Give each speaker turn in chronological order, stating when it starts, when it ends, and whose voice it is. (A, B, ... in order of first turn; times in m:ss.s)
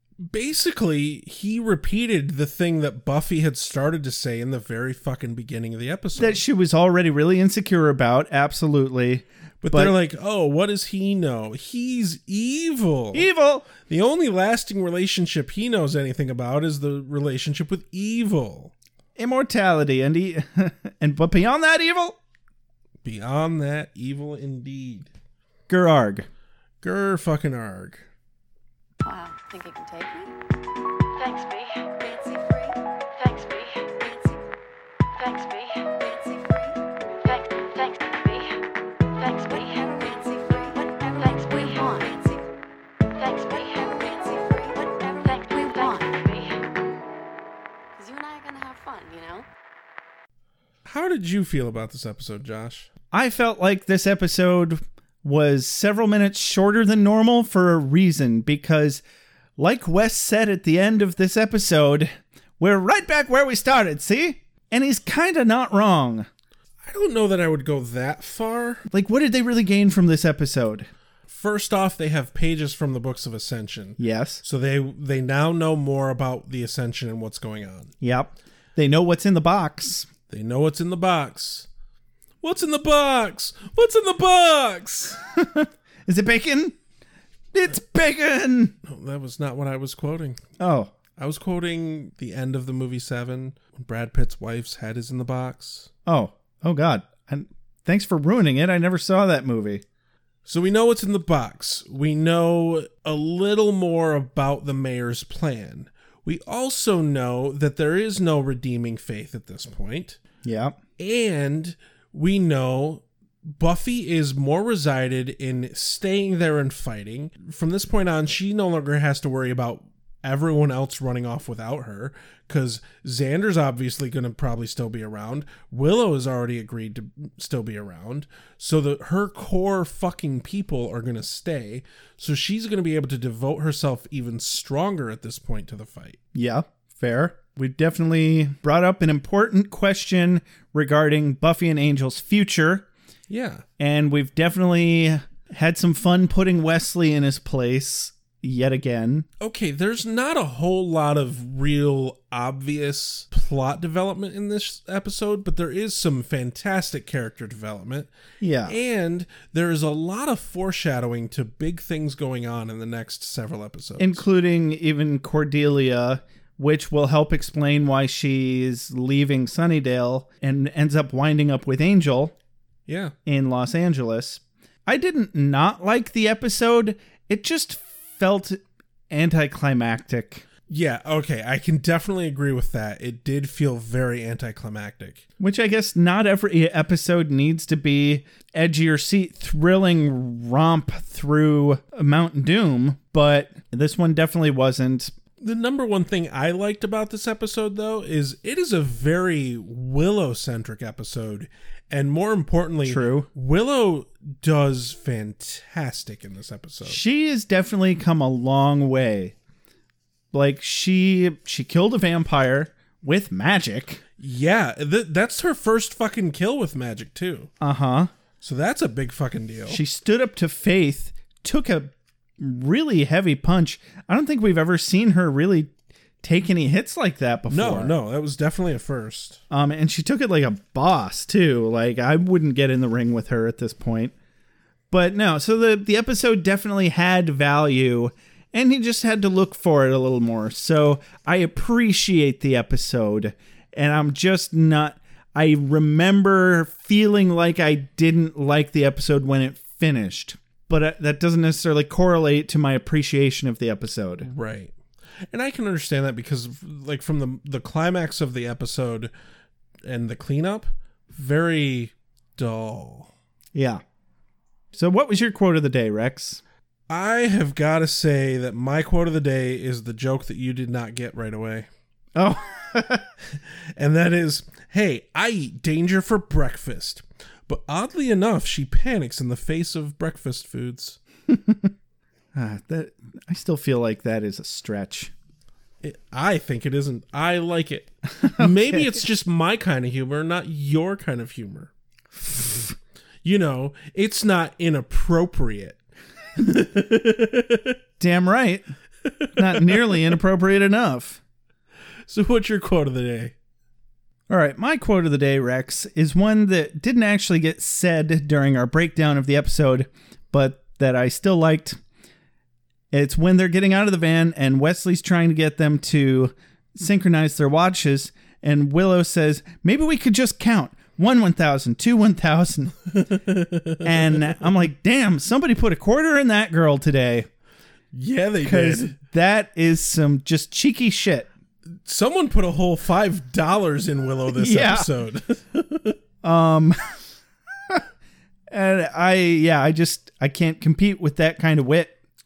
0:00.2-0:06.4 A
0:06.2-0:09.9 B
0:09.6-0:18.7 A
0:13.1-0:13.7 B
0:19.2-0:22.2 B
0:23.0-0:25.1 A
0:25.7-0:26.2 B
0:26.8-0:28.1 A
0:29.0-0:30.3 C
0:31.1-0:31.9 D
0:31.9-0:32.8 C
0:33.2-0:33.9 D
0:34.0-0:34.4 C
0:35.2-0:35.9 D
0:35.9-0:36.8 C
0:37.2-0:38.6 D
0:39.2-0:39.8 D
0:39.5-0:42.4 C
0:41.2-0:41.9 D
0:43.2-0:43.8 D
0:43.5-0:46.2 C
0:45.2-0:46.6 D
0:47.9-0:49.4 C
0:50.8-0:52.9 A
0:53.1-0:59.0 B
0:59.6-1:06.3 B
1:06.8-1:08.8 A
1:08.9-1:10.9 B
1:11.3-1:17.9 A
1:14.0-1:14.4 B
1:18.0-1:20.1 B
1:20.3-1:21.7 A
1:22.4-1:25.2 A
1:25.4-1:26.7 B
1:27.5-1:28.7 B
1:28.8-1:30.4 A
1:30.6-1:30.9 B
1:31.2-1:35.9 A
1:36.1-1:39.8 B
1:40.4-1:50.2 A
1:50.4-1:50.8 B
1:51.0-2:16.2 A
2:16.3-2:22.9 B
2:23.3-2:23.6 A
2:23.8-2:29.3 B
2:29.4-2:38.1 A
2:38.4-2:38.7 B
2:38.6-2:44.2 A
2:44.0-2:52.3 B
2:52.9-2:53.1 A
2:53.2-2:58.6 B
2:59.1-3:00.4 B
3:00.7-3:05.2 A
3:05.4-3:15.1 B
3:15.4-3:27.0 A
3:22.8-3:23.3 B
3:26.8-3:29.3 B
3:30.3-3:34.0 B
3:34.2-3:37.5 A
3:37.6-3:38.1 B
3:38.4-3:39.8 A
3:39.7-3:45.7 B
3:46.2-3:47.9 B
3:47.5-3:49.4 A
3:49.5-3:54.1 B
3:54.9-4:14.2 B
4:14.2-4:14.8 A
4:15.3-4:19.1 A
4:19.8-4:23.1 A
4:23.5-4:23.8 B
4:24.7-4:26.4 B
4:26.9-4:31.7 A
4:32.2-4:33.1 B
4:33.3-4:41.0 A
4:41.3-4:41.7 B
4:42.3-4:45.1 B
4:45.8-4:51.7 A
4:48.2-4:48.9 B
4:52.2-4:52.7 B
4:53.2-4:55.8 A
4:56.4-4:57.8 A
4:58.0-4:58.7 B
4:59.2-5:00.0 A
4:59.4-5:01.2 B
5:02.1-5:03.3 A
5:04.3-5:11.8 B
5:12.9-5:22.7 B
5:22.9-5:24.4 A
5:23.8-5:27.3 B
5:27.9-5:28.9 A
5:28.4-5:31.3 B
5:31.7-5:36.0 A
5:34.3-5:34.9 B
5:36.2-5:36.8 B
5:38.5-5:41.9 B